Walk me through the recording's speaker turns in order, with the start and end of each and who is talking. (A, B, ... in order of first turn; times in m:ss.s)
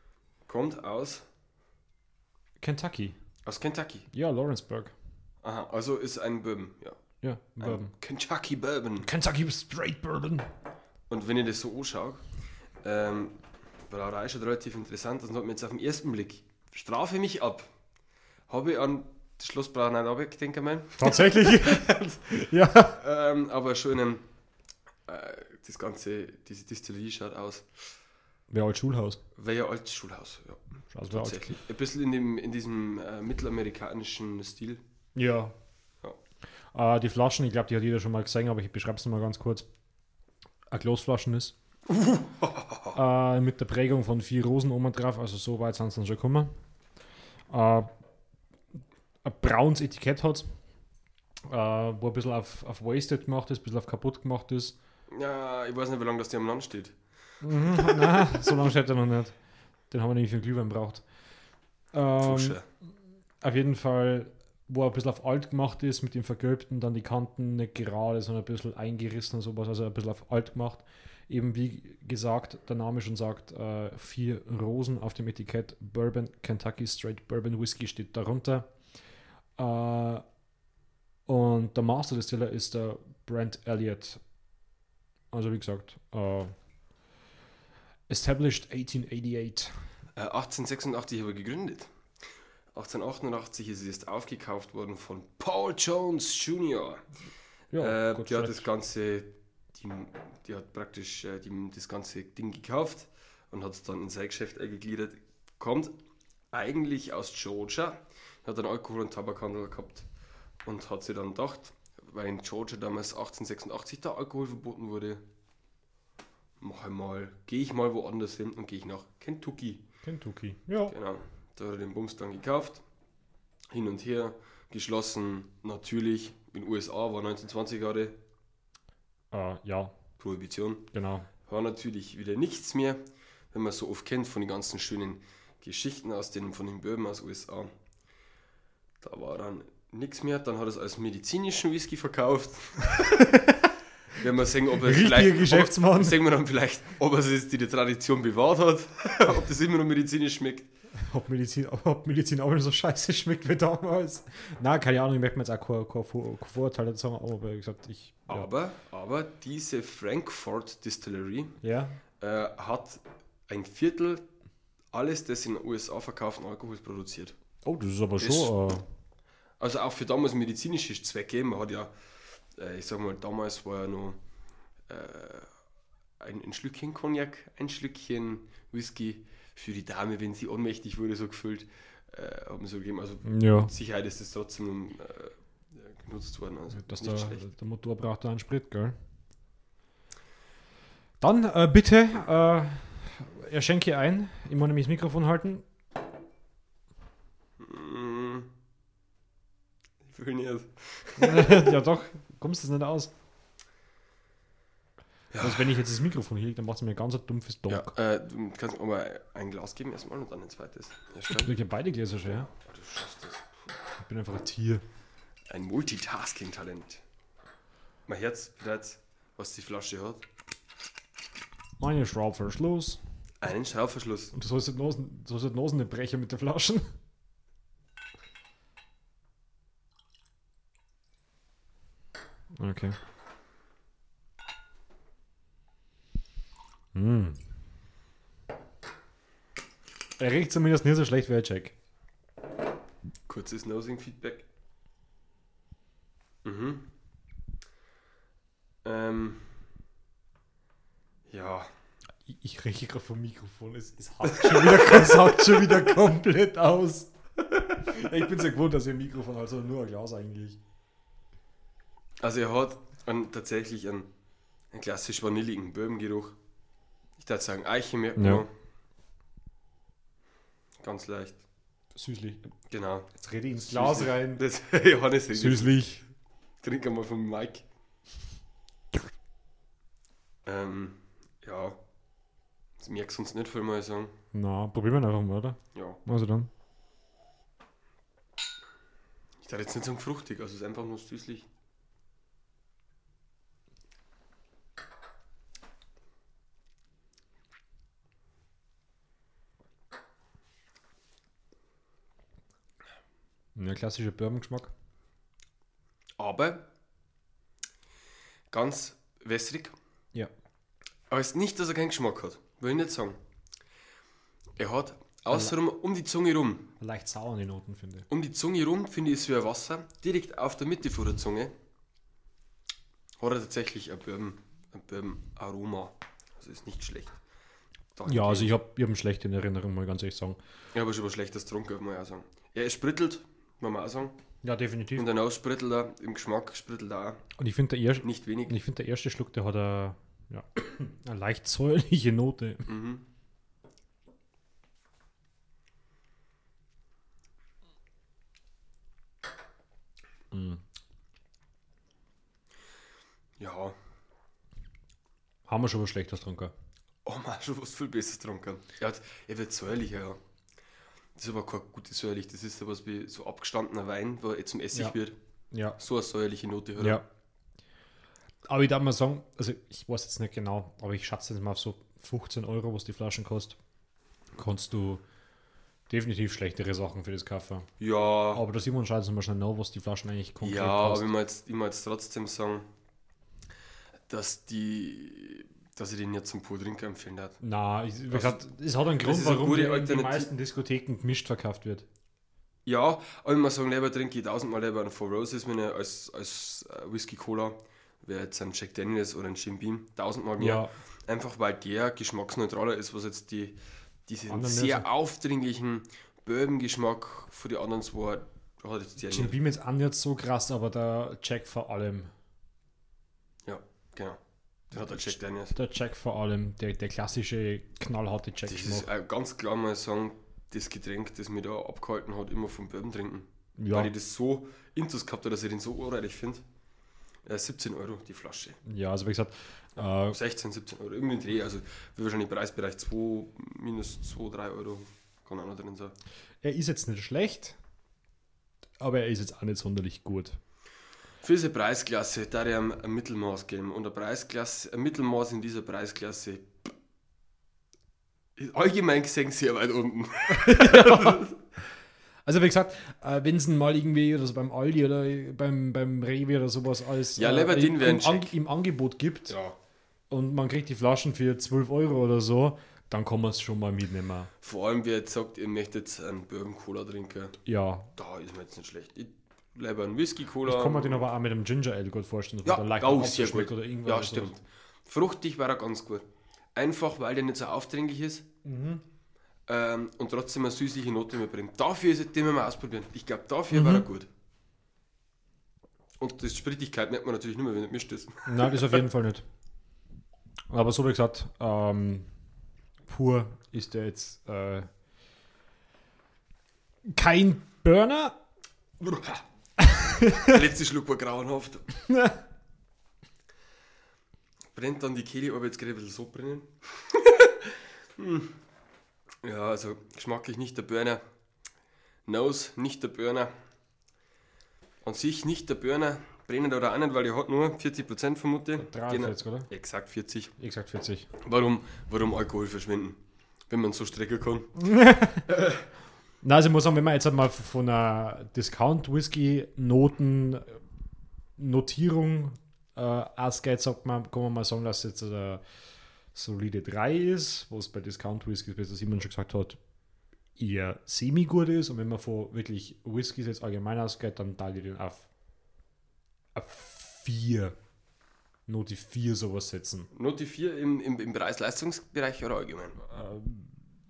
0:00.5-0:01.2 A
0:02.6-0:03.2 B
0:03.4-0:04.1 A
0:04.1-0:04.9 B
0:05.4-0:07.0 A
0:07.2-0:07.9 B
0:07.6-0:09.1 A
0:09.0-0:10.5 B
0:11.1-0:12.2 A
0:12.8-0:17.7 A
0:18.5-0:22.4 A
0:21.0-0:23.0 B
0:22.9-0:24.2 A
0:25.1-0:27.7 A
0:28.5-0:29.2 B
0:29.3-0:34.8 A
0:30.9-0:31.6 B
0:35.1-0:35.5 B
0:36.7-0:39.6 B
0:40.7-0:41.5 B
0:41.9-0:43.0 A
0:42.9-0:46.5 B
0:47.5-0:47.9 B
0:49.2-0:50.5 B
0:51.5-0:54.8 B
0:55.1-0:57.0 A
0:57.4-0:59.4 B
0:57.5-0:58.5 A
0:59.9-1:01.0 B
1:01.9-1:02.6 B
1:02.2-1:02.6 A
1:03.4-1:18.7 B
1:19.6-1:20.2 B
1:21.3-1:24.2 B
1:25.3-1:26.5 B
1:28.1-1:29.7 B
1:30.2-1:31.9 A
1:32.7-1:37.1 A
1:37.7-1:38.7 B
1:37.8-1:45.9 A
1:46.5-1:50.1 A
1:50.6-1:55.2 A
1:56.6-1:59.8 A
2:00.0-2:00.9 B
2:00.9-2:02.8 A
2:03.7-2:08.2 A
2:09.3-2:09.9 B
2:10.2-2:10.9 A
2:10.9-2:11.3 B
2:11.4-2:13.0 A
2:13.5-2:17.7 A
2:19.0-2:23.4 A
2:23.1-2:23.6 B
2:24.1-2:30.7 A
2:24.8-2:26.2 B
2:31.1-2:38.5 B
2:38.3-2:41.6 A
2:41.6-2:42.0 B
2:42.2-2:44.2 A
2:44.9-2:47.4 A
2:47.6-2:48.8 B
2:48.2-2:48.5 A
2:49.6-2:51.9 A
2:52.6-2:54.2 A
2:54.9-2:55.5 A
2:56.2-3:07.4 A
3:03.2-3:03.7 B
3:06.7-3:09.0 B
3:11.2-3:15.6 B
3:17.6-3:18.5 A
3:20.0-3:21.8 A
3:21.2-3:23.1 B
3:25.3-3:25.8 A
3:25.4-3:27.9 B
3:27.7-3:31.6 A
3:31.3-3:32.5 B
3:32.2-3:33.5 A
3:34.0-3:34.8 B
3:35.5-3:37.0 A
3:38.1-3:40.2 A
3:41.8-3:43.0 B
3:43.4-3:44.3 A
3:44.3-3:46.9 B
3:52.6-3:53.0 B
3:56.9-3:57.4 B
4:00.2-4:01.7 B
4:03.3-4:04.4 A
4:06.4-4:06.9 A
4:08.8-4:09.5 A
4:11.3-4:11.7 A
4:12.2-4:17.1 B
4:14.2-4:15.8 A
4:17.7-4:20.6 B
4:22.2-4:24.1 A
4:24.7-4:26.4 A
4:27.2-4:28.5 A
4:28.2-4:28.4 B
4:30.8-4:31.4 A
4:31.9-4:32.5 B
4:32.7-4:33.1 A
4:33.1-4:34.4 B
4:33.6-4:35.8 A
4:35.3-4:36.0 B
4:36.6-4:37.6 A
4:40.4-4:41.8 A
4:42.8-4:44.1 A
4:44.3-4:46.5 B
4:45.7-4:46.0 A
4:49.4-4:51.5 A
5:03.5-5:04.7 B
5:06.2-5:06.6 A
5:08.5-5:09.8 A
5:11.1-5:13.2 A
5:14.6-5:16.7 A
5:16.8-5:18.1 B
5:18.1-5:21.5 A
5:23.2-5:27.2 A
5:28.0-5:28.5 A
5:28.0-5:30.4 B
5:30.7-5:34.2 A
5:34.4-5:35.1 B
5:35.0-5:37.2 A
5:37.4-5:42.7 B
5:38.0-5:38.5 A
5:42.7-5:43.0 A
5:50.3-5:50.6 B
5:53.4-5:53.8 A
5:55.5-5:56.5 B
5:57.0-6:00.2 A
6:01.2-6:05.2 A
6:05.5-6:05.8 B
6:05.8-6:07.0 A
6:06.8-6:07.0 B
6:08.5-6:13.6 B
6:14.4-6:15.0 B
6:15.9-6:17.7 B
6:17.8-6:18.4 A
6:18.3-6:21.1 B
6:20.4-6:22.7 A
6:24.1-6:27.4 A
6:27.4-6:31.9 B
6:28.1-6:28.4 A
6:29.0-6:30.3 A
6:32.6-6:49.4 A
6:40.4-6:40.7 B
6:44.3-6:44.9 B
6:49.0-6:52.1 B
6:53.4-6:54.2 A
6:54.7-6:55.5 A
6:55.5-6:58.9 B
6:58.5-7:06.4 A
7:03.6-7:03.9 B
7:07.2-7:08.6 A
7:08.6-7:10.2 B
7:10.0-7:16.0 A
7:16.4-7:17.6 B
7:18.8-7:20.4 B
7:21.2-7:26.7 A
7:28.4-7:31.4 A
7:30.3-7:31.2 B
7:32.2-7:39.4 B
7:37.1-7:38.4 A
7:39.3-7:39.6 A
7:40.1-7:44.3 B
7:44.4-7:47.4 A
7:47.4-7:47.9 B
7:48.0-7:51.0 A
7:50.4-7:54.4 B
7:52.4-7:58.2 A
7:58.4-7:58.8 B
7:59.5-8:04.1 A
8:03.5-8:03.9 B
8:06.0-8:08.8 A
8:08.2-8:09.2 B
8:10.5-8:12.1 B
8:12.9-8:14.7 B
8:16.8-8:18.2 B
8:18.8-8:19.2 A
8:19.6-8:20.4 B
8:20.2-8:21.6 A
8:21.8-8:22.2 B
8:24.5-8:28.4 A
8:29.2-8:31.0 A
8:32.0-8:33.3 A
8:34.8-8:40.3 A
8:38.6-8:39.5 B
8:40.4-8:41.1 B
8:41.2-8:44.6 A
8:44.6-8:45.3 B
8:45.3-8:45.6 A
8:46.2-8:50.6 B
8:51.4-8:55.4 B
8:56.1-8:59.6 B
9:00.4-9:05.1 B
9:06.4-9:07.5 B
9:08.5-9:09.9 B
9:09.9-9:12.8 A
9:12.9-9:13.6 B